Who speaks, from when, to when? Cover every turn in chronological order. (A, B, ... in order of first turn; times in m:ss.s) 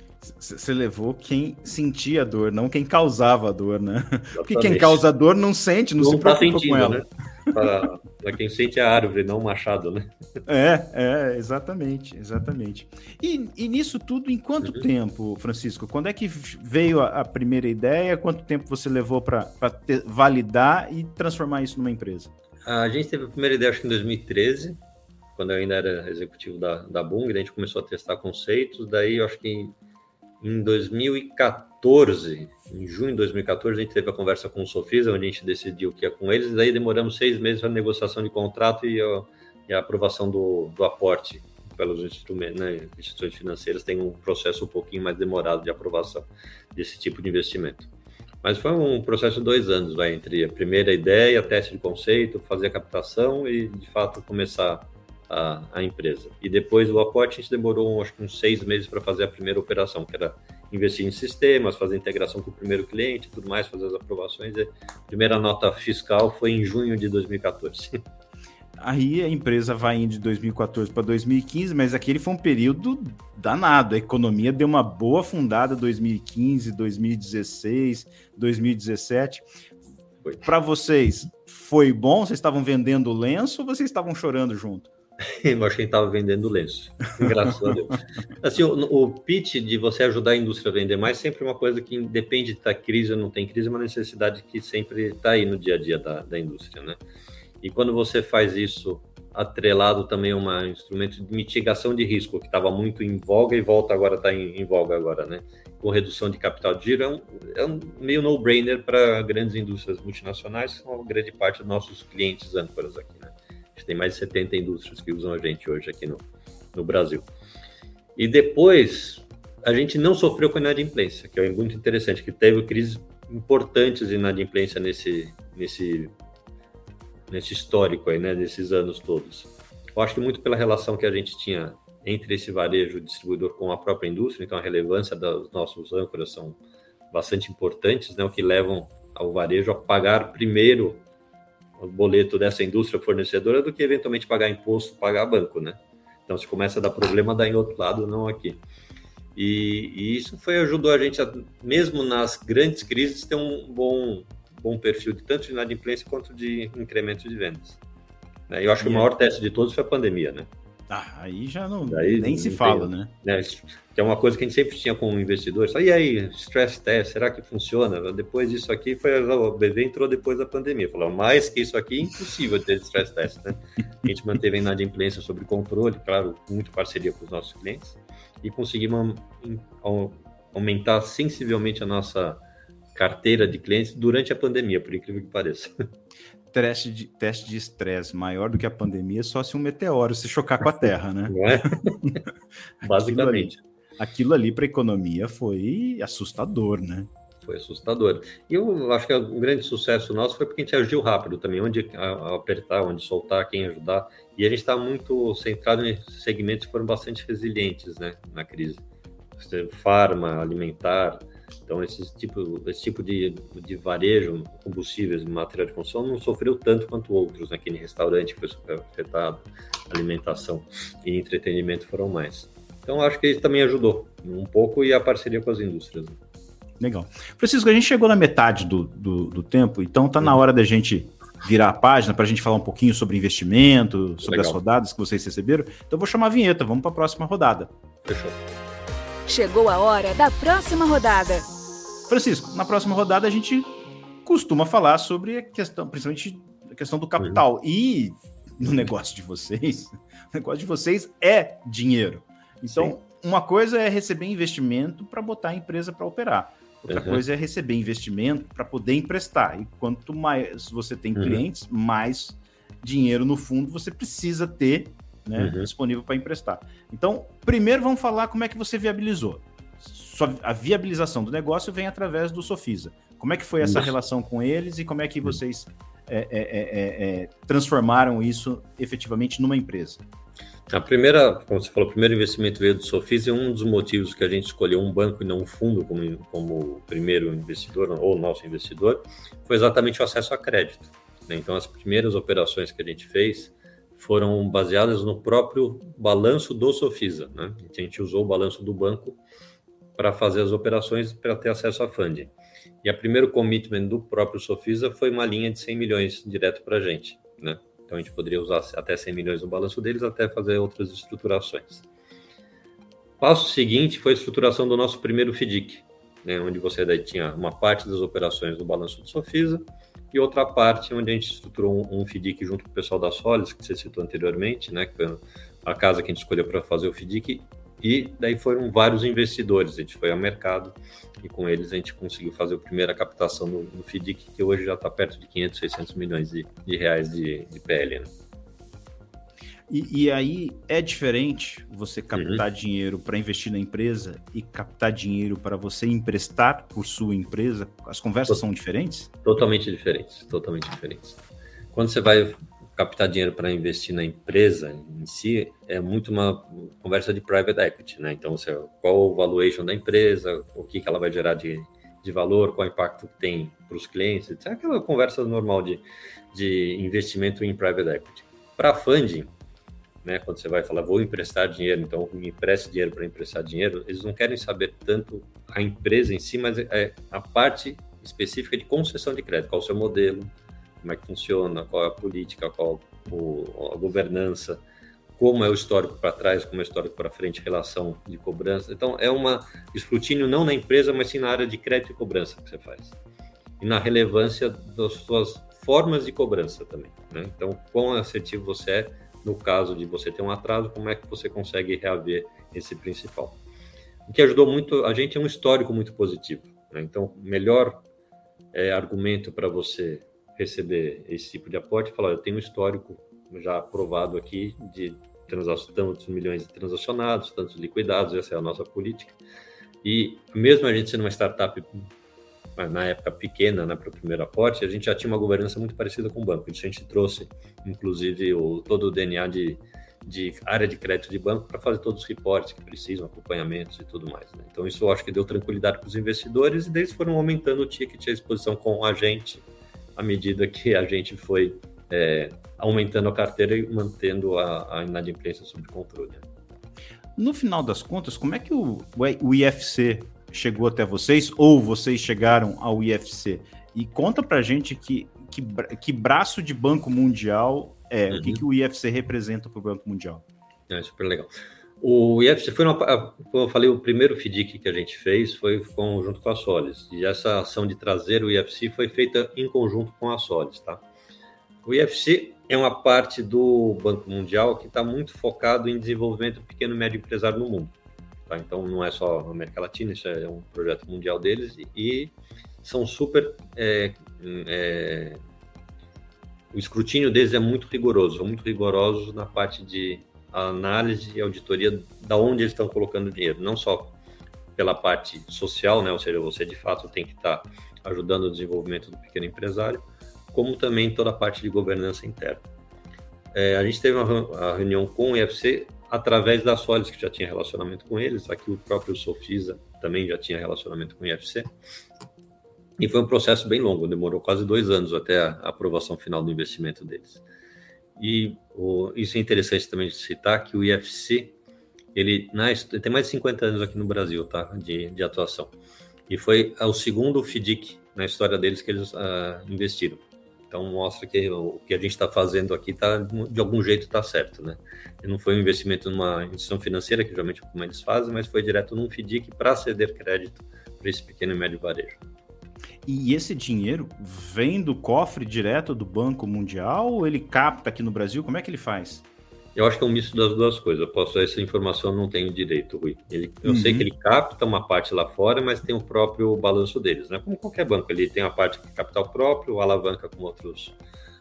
0:00.2-0:07.6 A
0:04.3-0:05.0 B
0:06.0-0:10.1 B
0:10.5-0:22.3 A
0:22.6-0:24.8 B
0:25.4-0:29.8 B
0:30.4-0:47.9 B
0:48.4-1:08.0 B
1:08.8-1:19.4 A
1:20.4-1:24.9 A
1:25.3-1:37.0 B
1:27.2-1:27.7 A
1:37.6-1:57.3 B
1:58.2-2:06.1 B
2:07.3-2:16.6 B
2:17.1-2:21.0 B
2:21.8-2:28.6 B
2:29.4-2:37.8 B
2:38.5-2:40.5 B
2:38.8-2:39.1 A
2:40.9-2:43.1 A
2:41.9-3:02.4 B
3:02.9-3:05.7 B
3:06.5-3:11.4 A
3:11.3-3:12.2 B
3:12.8-3:13.6 B
3:12.8-3:17.1 A
3:17.4-3:28.8 B
3:29.4-3:46.2 B
3:46.8-3:57.7 A
3:54.2-3:54.6 B
3:58.1-3:58.4 B
3:59.3-4:01.5 C
4:02.1-4:40.0 A
4:12.7-4:12.9 B
4:16.9-4:17.2 B
4:21.2-4:21.4 B
4:25.4-4:25.7 B
4:33.6-4:33.9 B
4:40.7-4:59.2 B
5:00.0-5:11.9 B
5:13.2-5:38.1 B
5:39.7-5:49.1 A
5:42.1-5:42.4 B
5:49.2-5:51.2 B
5:51.7-6:09.3 B
6:10.0-6:20.3 B
6:20.8-6:24.6 B
6:25.2-6:33.0 B
6:33.6-6:43.4 B
6:44.1-6:47.8 B
6:48.5-6:59.2 B
6:59.8-7:01.8 B
7:02.6-7:19.4 B
7:20.0-7:26.3 B
7:27.2-7:40.2 A
7:38.1-7:38.4 B
7:40.7-7:50.8 B
7:51.6-7:57.8 B
7:58.3-8:05.2 B
8:06.5-8:14.0 B
8:14.6-8:22.5 B
8:23.3-8:31.5 B
8:32.8-8:37.2 B
8:38.0-8:41.4 B
8:42.0-8:45.5 B
8:46.1-9:02.0 B
9:02.9-9:09.0 A
9:09.6-9:20.8 B
9:13.5-9:13.9 A